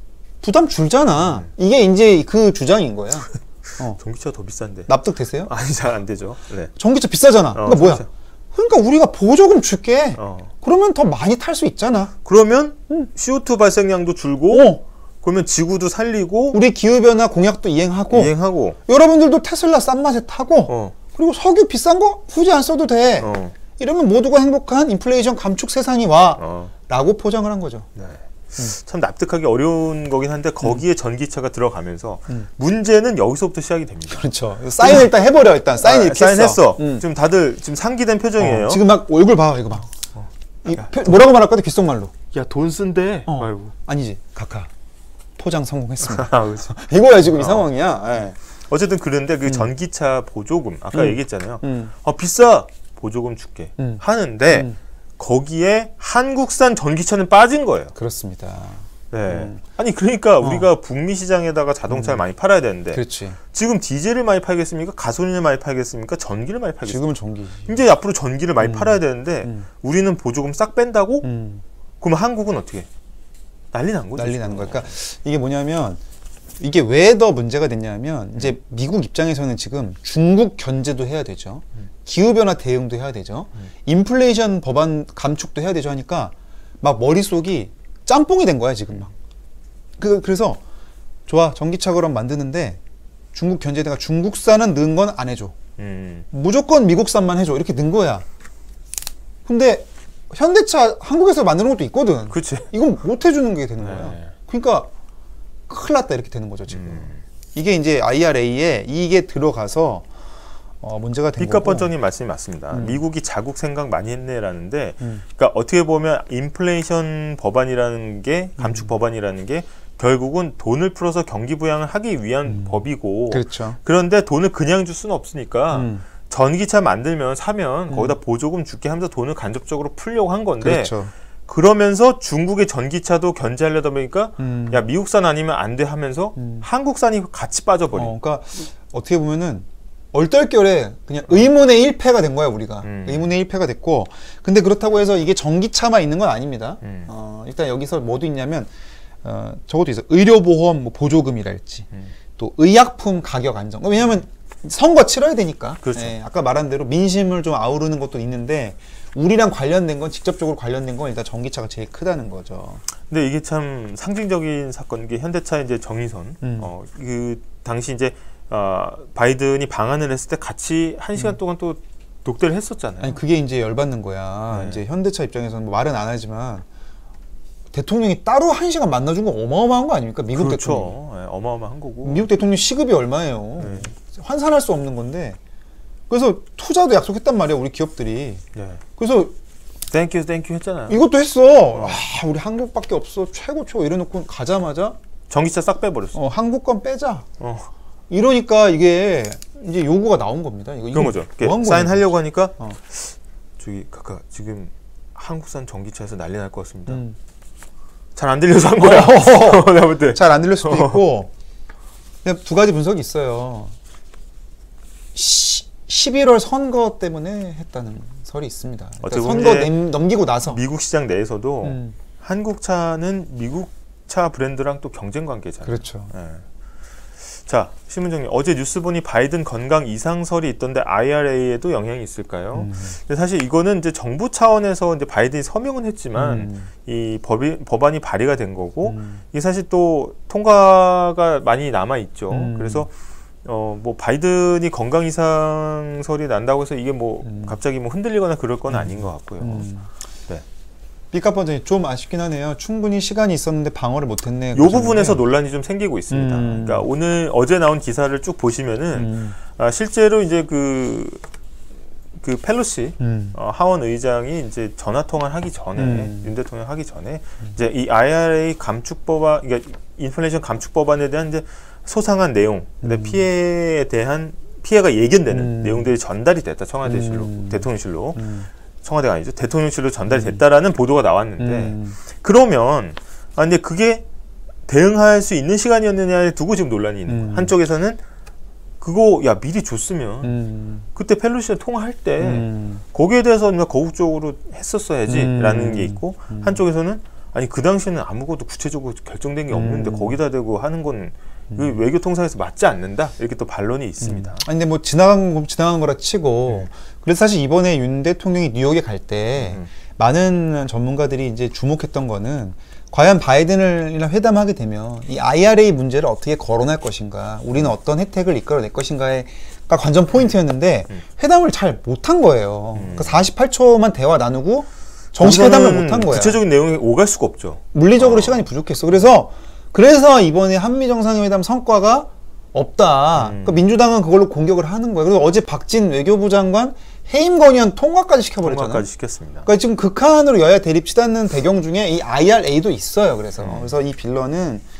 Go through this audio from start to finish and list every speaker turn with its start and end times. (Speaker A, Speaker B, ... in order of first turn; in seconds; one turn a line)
Speaker A: 0.4-4.0
Speaker B: 4.0-4.9
Speaker A: 4.9-5.5
Speaker B: 5.5-6.7
Speaker A: 6.8-12.1
Speaker B: 7.5-8.1
Speaker B: 10.2-10.5
Speaker B: 12.2-16.6
Speaker A: 14.5-14.8
Speaker A: 16.5-18.3
Speaker B: 18.1-18.8
Speaker A: 18.9-27.9
Speaker B: 20.7-20.9
Speaker B: 23.2-23.5
Speaker B: 26.4-26.7
Speaker B: 27.9-35.2
Speaker A: 34.1-37.0
Speaker B: 35.8-38.8
Speaker A: 38.4-39.9
Speaker B: 40.1-40.8
Speaker A: 40.6-42.1
Speaker B: 42.3-43.7
Speaker A: 43.3-44.7
Speaker A: 45.4-48.4
Speaker B: 46.0-46.7
Speaker B: 47.2-47.7
Speaker B: 48.7-57.9
Speaker A: 50.9-51.9
Speaker A: 53.8-54.8
Speaker A: 57.9-59.6
Speaker B: 59.1-63.0
Speaker A: 60.4-60.7
Speaker A: 61.9-62.2
Speaker A: 62.9-63.4
Speaker B: 63.5-67.1
Speaker A: 66.8-67.8
Speaker B: 67.7-71.2
Speaker A: 68.6-69.7
Speaker A: 71.2-71.6
Speaker B: 72.0-72.9
Speaker B: 73.7-74.9
Speaker A: 74.2-76.0
Speaker A: 76.6-89.1
Speaker A: 90.0-90.6
Speaker A: 91.3-92.8
Speaker A: 93.3-95.5
Speaker B: 95.8-96.3
Speaker A: 96.3-98.2
Speaker A: 99.5-104.9
Speaker B: 102.3-102.7
Speaker B: 103.8-104.3
Speaker A: 105.7-110.0
Speaker B: 106.7-107.2
Speaker A: 110.8-111.9
Speaker B: 111.4-130.9
Speaker A: 112.7-113.0
Speaker A: 118.6-118.9
Speaker A: 122.5-123.8
Speaker A: 125.7-126.0
Speaker A: 127.9-128.2
Speaker A: 130.6-131.1
Speaker B: 131.5-138.1
Speaker A: 134.4-134.8
Speaker A: 136.4-136.6
Speaker A: 137.9-148.7
Speaker B: 142.8-143.3
Speaker B: 146.8-147.1
Speaker A: 149.2-162.8
Speaker B: 155.8-156.1
Speaker B: 163.1-173.2
Speaker A: 166.4-166.7
Speaker A: 173.0-176.6
Speaker B: 174.5-174.8
Speaker A: 177.7-180.9
Speaker B: 180.3-182.3
Speaker A: 182.0-185.4
Speaker B: 183.6-183.9
Speaker A: 186.1-188.4
Speaker B: 188.5-188.8
Speaker A: 189.0-189.3
Speaker B: 189.9-191.0
Speaker A: 190.9-195.0
Speaker B: 191.7-192.0
Speaker B: 195.3-196.2
Speaker A: 196.1-197.2
Speaker B: 197.4-197.7
Speaker A: 198.1-202.8
Speaker B: 200.9-207.0
Speaker A: 206.9-207.2
Speaker B: 208.1-211.0
Speaker A: 208.8-211.3
Speaker A: 212.2-213.7
Speaker A: 215.1-220.6
Speaker B: 219.0-219.8
Speaker B: 220.4-226.4
Speaker A: 221.6-221.9
Speaker A: 225.6-226.1
Speaker B: 227.2-242.9
Speaker A: 232.5-233.0
Speaker A: 236.2-236.7
Speaker A: 238.8-239.2
Speaker A: 242.3-242.9
Speaker B: 243.4-249.7
Speaker A: 247.2-247.6
Speaker A: 248.7-249.9
Speaker A: 251.1-255.2
Speaker B: 254.5-261.2
Speaker A: 256.1-256.9
Speaker A: 258.9-259.4
Speaker B: 262.2-278.3
Speaker A: 263.0-263.4
Speaker A: 265.8-266.3
Speaker A: 272.8-273.2
Speaker A: 275.3-275.9
Speaker A: 276.8-278.5
Speaker B: 278.8-284.0
Speaker A: 280.1-280.4
Speaker A: 281.4-282.0
Speaker B: 284.6-288.0
Speaker A: 287.1-287.5
Speaker B: 288.8-290.4
Speaker A: 290.2-290.9
Speaker B: 290.9-304.4
Speaker A: 292.2-292.8
Speaker A: 295.1-296.6
Speaker A: 299.5-300.2
Speaker A: 301.5-301.8
Speaker A: 304.0-326.4
Speaker B: 309.4-309.7
Speaker B: 322.8-323.3
Speaker B: 325.1-328.4
Speaker A: 327.7-338.9
Speaker B: 333.1-333.7
Speaker B: 338.4-339.5
Speaker A: 339.4-344.6
Speaker B: 343.4-343.7